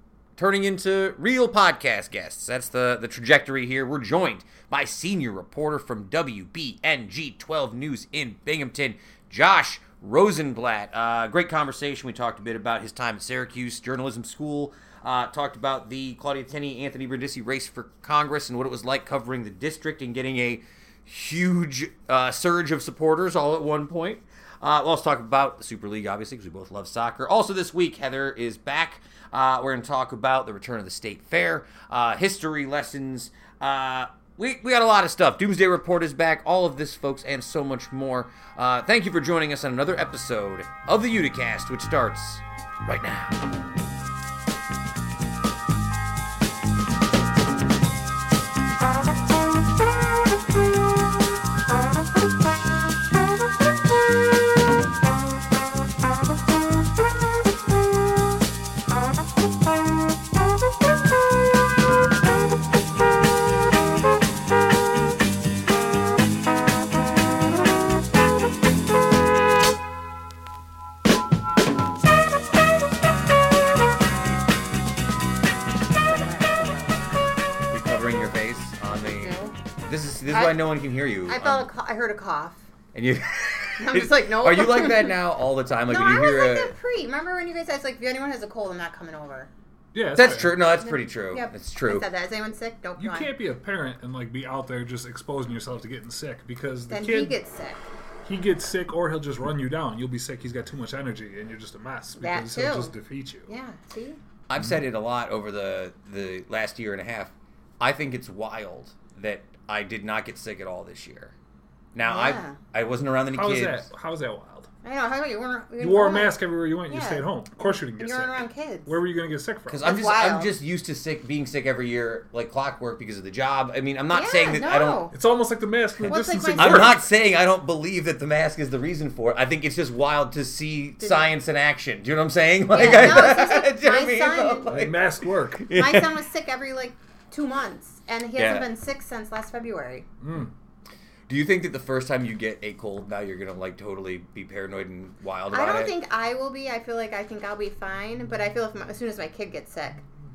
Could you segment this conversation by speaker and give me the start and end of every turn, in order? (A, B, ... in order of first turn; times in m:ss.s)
0:00.4-0:43.4 A
1:16.0-1:17.3 B
1:17.7-1:21.7 A
1:19.0-1:19.6 B
1:20.3-1:20.6 B
1:21.3-1:22.6 B
1:22.9-1:26.7 A
1:23.8-1:25.2 B
1:25.9-1:29.5 B
1:29.9-1:30.6 C
1:30.2-1:32.1 A
1:30.8-1:33.3 B
1:33.0-1:37.4 C
1:36.9-1:37.8 B
1:38.2-1:43.5 C
1:42.2-1:43.0 B
1:43.5-1:44.2 B
1:44.5-1:51.3 A
1:52.0-1:53.9 A
1:52.0-1:52.6 B
1:53.3-1:54.7 C
1:54.8-1:57.2 B
1:55.8-1:59.9 C
1:58.0-1:59.0 B
1:59.7-2:05.0 A
1:59.8-2:00.5 B
2:04.1-2:05.2 B
2:05.1-2:07.0 C
2:06.0-2:15.0 A
2:06.1-2:07.0 B
2:11.0-2:11.3 B
2:12.7-2:14.8 B
2:14.7-2:15.7 C
2:15.5-2:16.1 A
2:15.7-2:20.1 B
2:18.4-2:18.7 A
2:20.2-2:20.5 C
2:21.3-2:25.9 A
2:25.5-2:30.0 B